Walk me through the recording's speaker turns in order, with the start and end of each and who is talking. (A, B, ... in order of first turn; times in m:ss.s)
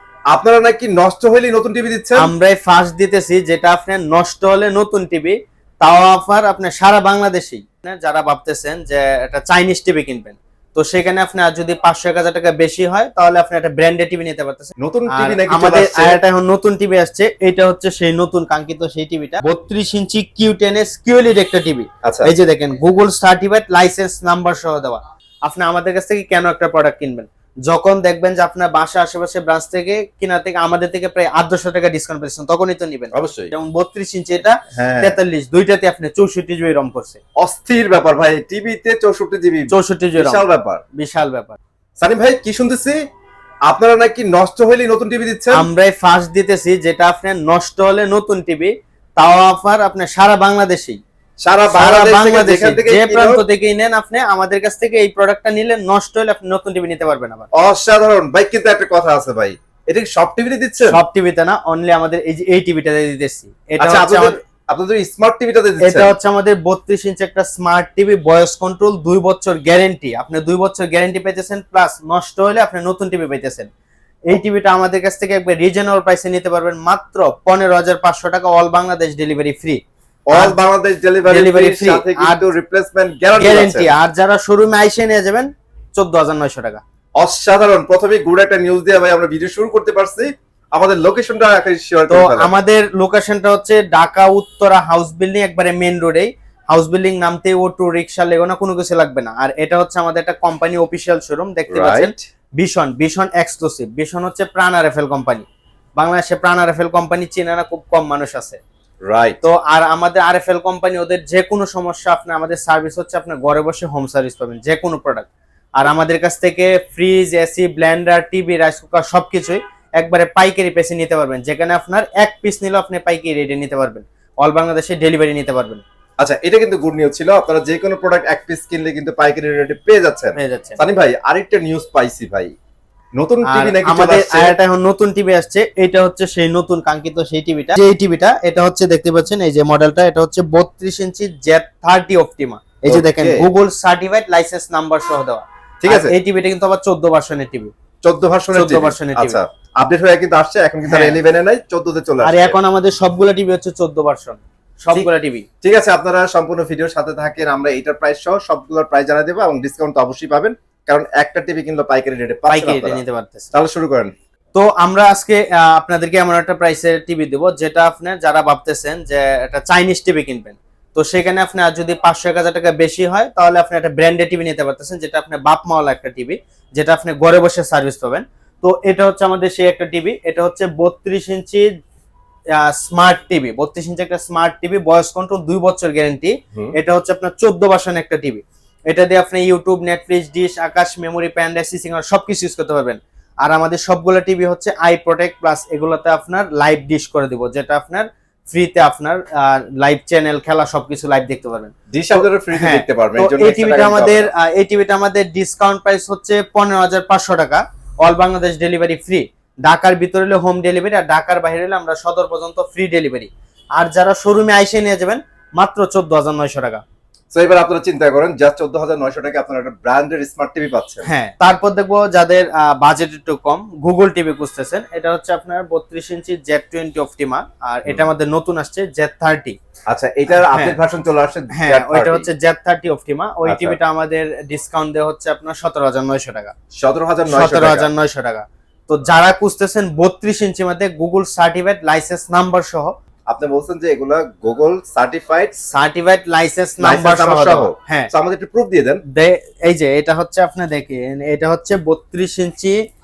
0:00.3-0:02.3 A
0:02.2-0:37.2 B
0:14.8-0:16.2 A
0:22.0-0:22.3 A
0:33.1-0:33.5 A
0:34.7-0:35.2 A
0:37.4-0:40.8 A
0:39.7-0:41.6 B
0:42.0-0:43.0 A
0:43.7-0:45.7 A
0:45.5-0:51.0 B
0:51.4-0:53.4 A
0:51.7-0:57.5 B
0:57.5-1:01.0 A
1:00.8-1:04.4 B
1:03.8-1:06.1 A
1:05.8-1:13.7 B
1:14.3-1:19.8 B
1:20.3-1:23.9 A
1:20.3-1:20.6 B
1:21.2-1:22.5 B
1:23.4-1:26.8 B
1:27.2-1:32.5 A
1:32.1-1:48.6 B
1:41.7-1:42.2 A
1:49.0-1:49.4 A
1:49.4-2:05.8 B
2:06.2-2:12.5 A
2:10.4-2:10.8 B
2:13.2-2:14.6 A
2:13.4-2:27.7 B
2:22.9-2:23.4 A
2:25.8-2:26.2 A
2:28.0-2:32.6 A
2:28.5-2:29.4 B
2:30.9-2:31.2 B
2:32.2-2:35.5 B
2:35.6-2:43.0 A
2:42.5-2:43.5 B
2:43.5-2:44.1 A
2:44.6-3:01.7 B
3:02.5-3:36.8 B
3:21.9-3:24.3 A
3:37.3-3:41.1 A
3:41.0-3:49.6 B
3:49.9-3:52.3 A
3:50.3-3:50.8 B
3:51.5-3:56.5 B
3:53.4-3:53.8 A
3:56.7-3:57.9 A
3:57.3-4:02.9 B
4:03.3-4:05.6 A
4:05.7-4:08.1 B
4:06.8-4:09.0 A
4:09.1-4:12.8 B